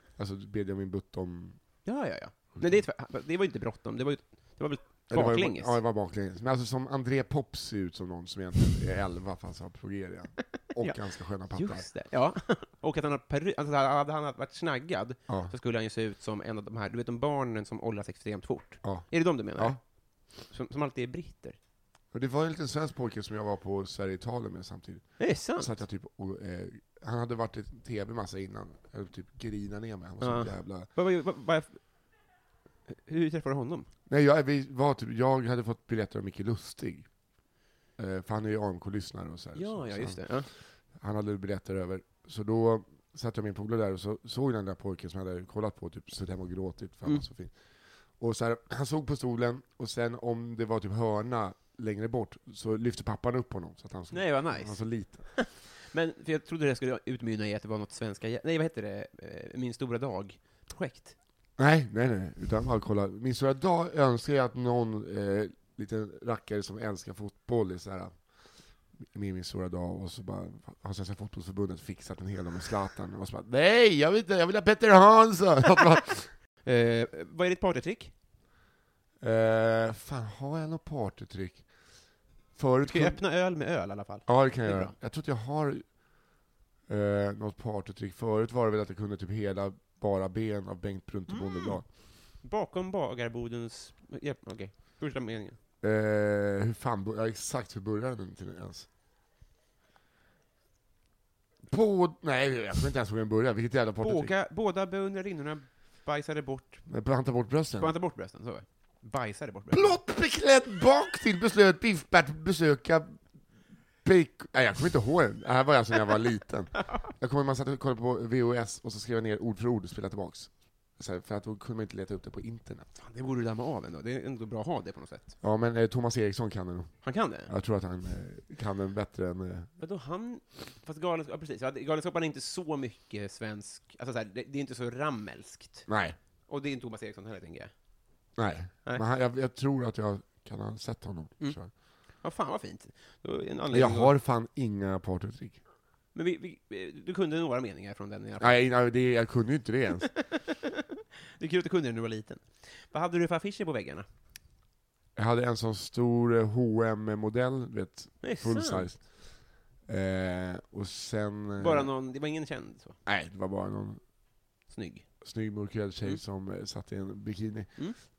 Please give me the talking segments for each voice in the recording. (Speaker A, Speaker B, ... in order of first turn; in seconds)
Speaker A: 0.2-1.6, 5.1-11.9, 18.8-19.8, 22.1-30.9, 34.1-37.1, 38.0-40.3, 40.9-47.6, 48.1-55.3, 61.6-68.2, 69.0-76.3, 79.2-81.7, 82.5-83.2, 84.3-86.0, 86.9-91.9, 95.8-98.9, 101.7-104.3, 106.9-107.9, 109.7-113.2, 114.0-122.9, 125.4-129.7, 135.9-136.2, 138.4-141.7, 143.7-145.6, 148.4-150.1, 155.2-161.9, 163.1-164.0, 165.2-167.9
Speaker B: 1.9-5.8, 10.8-21.6, 25.2-25.8, 30.2-31.9, 32.9-33.9, 39.5-40.5, 54.1-61.1, 76.7-78.1, 82.8-84.9, 91.3-95.6, 104.0-106.9, 107.8-110.0, 123.0-125.3, 127.0-127.5, 129.8-135.9, 136.5-137.7, 141.4-144.1, 146.1-148.6, 150.0-150.8, 151.4-154.1, 158.2-158.9, 161.6-163.0, 164.7-165.1